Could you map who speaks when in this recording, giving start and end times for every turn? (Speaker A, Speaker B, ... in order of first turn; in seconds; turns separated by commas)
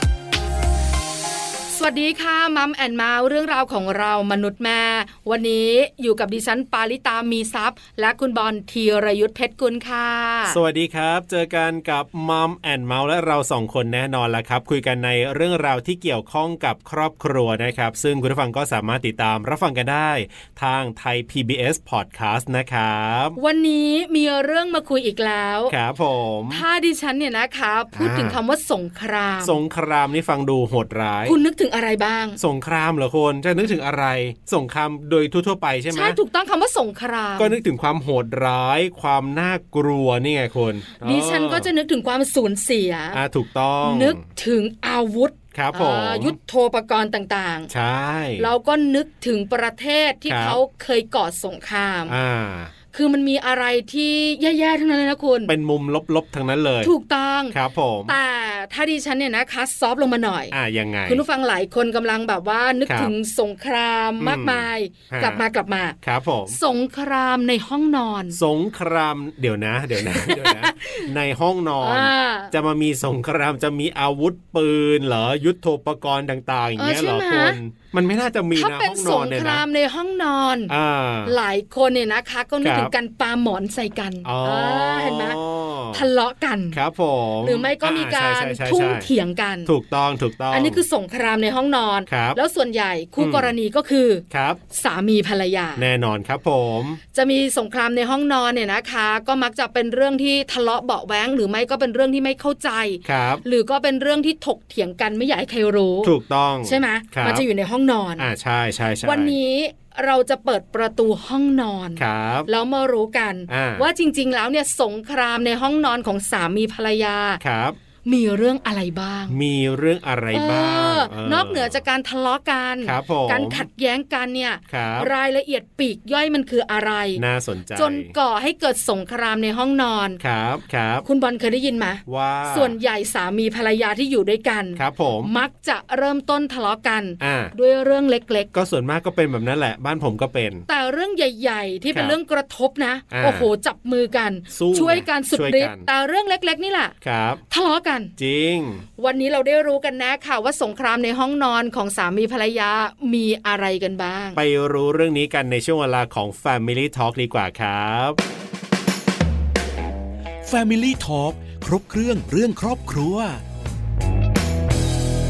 Speaker A: 1.7-10.6, Speaker B: 10.5-23.4, Speaker A: 23.4-25.7, Speaker B: 25.7-26.6, Speaker A: 26.5-29.6, Speaker B: 27.9-28.4, Speaker B: 29.4-31.4, Speaker A: 31.2-32.4, Speaker B: 32.4-36.2, Speaker A: 35.9-37.5, Speaker B: 37.4-41.7, Speaker A: 41.0-43.2, Speaker B: 43.1-44.2, Speaker A: 43.8-47.7, Speaker B: 45.5-46.3, Speaker B: 47.7-48.5, Speaker A: 48.4-52.1, Speaker B: 50.3-50.6, Speaker B: 52.1-52.7, Speaker A: 52.9-55.5, Speaker B: 55.5-56.9, Speaker A: 56.8-57.5, Speaker B: 57.5-58.1, Speaker A: 58.1-60.5, Speaker B: 60.5-61.2, Speaker A: 61.1-66.0, Speaker B: 62.9-63.1, Speaker B: 64.2-65.4, Speaker B: 66.0-66.6, Speaker A: 66.5-68.4, Speaker B: 68.3-79.6, Speaker A: 69.9-71.1, Speaker A: 71.8-72.5, Speaker A: 76.8-77.6, Speaker A: 78.5-80.7, Speaker B: 80.7-81.3, Speaker A: 81.2-85.4, Speaker B: 82.6-82.9, Speaker B: 84.2-86.0, Speaker A: 85.9-86.8, Speaker B: 86.7-89.1, Speaker A: 87.4-89.7, Speaker B: 89.7-90.8, Speaker A: 90.5-95.9, Speaker B: 92.1-92.4, Speaker B: 93.2-93.5, Speaker B: 94.3-94.6, Speaker B: 95.8-97.0, Speaker A: 97.1-106.1, Speaker B: 103.0-103.4, Speaker B: 106.0-107.4, Speaker A: 106.6-108.3, Speaker B: 108.2-109.3, Speaker A: 109.0-117.4, Speaker B: 112.0-112.5, Speaker B: 113.5-113.9, Speaker B: 117.4-117.8, Speaker A: 118.0-119.3, Speaker B: 119.3-121.8, Speaker A: 120.3-127.2, Speaker B: 122.8-123.6, Speaker B: 124.7-125.1, Speaker B: 127.2-128.1, Speaker A: 127.8-130.2, Speaker B: 130.2-131.0, Speaker A: 131.0-138.5, Speaker B: 132.1-132.7, Speaker B: 134.8-135.3, Speaker B: 137.2-137.5, Speaker B: 138.5-140.6, Speaker A: 140.7-146.9, Speaker B: 143.1-143.5, Speaker B: 144.5-145.9, Speaker B: 147.0-147.4, Speaker A: 147.5-148.1, Speaker B: 148.2-148.8, Speaker A: 149.0-154.4, Speaker B: 154.3-158.2, Speaker C: 160.4-163.4